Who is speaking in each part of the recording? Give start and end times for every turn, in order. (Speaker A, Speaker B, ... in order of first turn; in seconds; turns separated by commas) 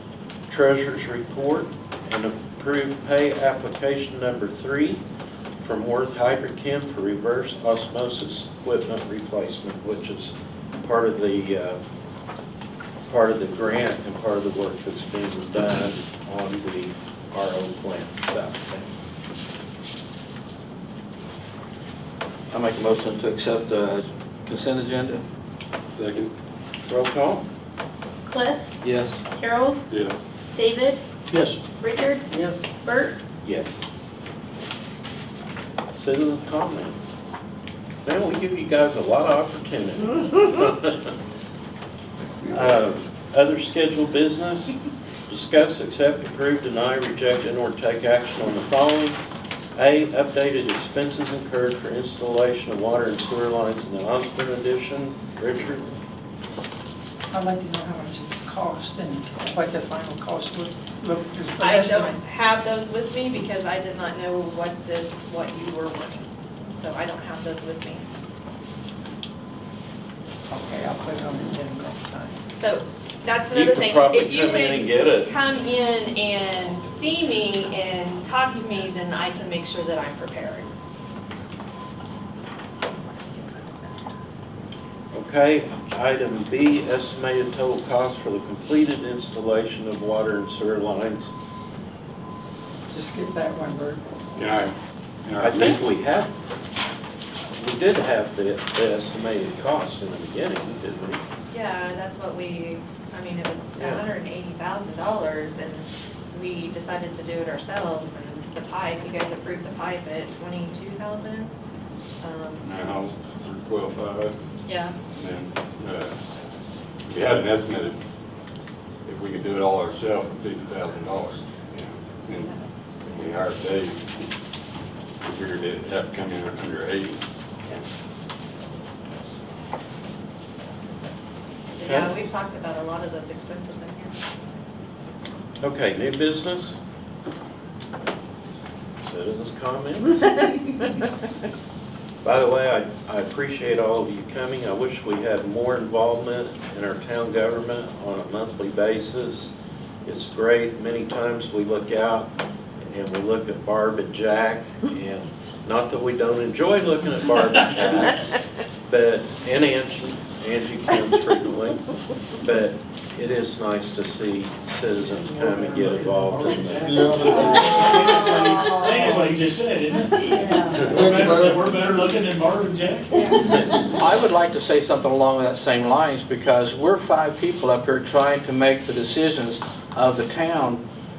Speaker A: 0.5-5.0, Speaker A: 5.6-11.8, Speaker A: 13.1-18.9, Speaker B: 22.5-25.2, Speaker C: 25.9-26.3, Speaker A: 26.8-27.4, Speaker D: 28.2-28.7, Speaker B: 28.8-29.2, Speaker D: 29.4-29.8, Speaker C: 29.9-30.1, Speaker D: 30.5-31.0, Speaker E: 31.3-31.6, Speaker D: 31.8-33.2, Speaker A: 33.4-33.7, Speaker A: 36.0-37.0, Speaker A: 38.0-41.1, Speaker A: 42.4-44.8, Speaker A: 45.3-49.2, Speaker A: 49.7-55.9, Speaker F: 57.3-62.2, Speaker G: 61.6-68.0, Speaker F: 70.5-72.4, Speaker G: 72.5-80.7, Speaker A: 73.5-75.3, Speaker A: 85.1-91.3, Speaker F: 92.9-94.0, Speaker C: 94.3-95.8, Speaker A: 95.4-96.3, Speaker A: 97.5-101.2, Speaker G: 101.5-111.5, Speaker A: 103.8-104.0, Speaker G: 112.2-112.7, Speaker C: 112.6-114.3, Speaker G: 114.7-114.9, Speaker C: 115.1-116.2, Speaker C: 117.1-118.0, Speaker C: 119.0-124.2, Speaker G: 122.3-122.6, Speaker C: 125.2-127.2, Speaker G: 131.7-134.1, Speaker A: 131.8-132.1, Speaker A: 135.6-136.8, Speaker A: 139.0-140.3, Speaker A: 142.2-149.5, Speaker A: 150.0-158.3, Speaker A: 158.8-167.6, Speaker E: 167.0-173.5, Speaker B: 173.9-180.8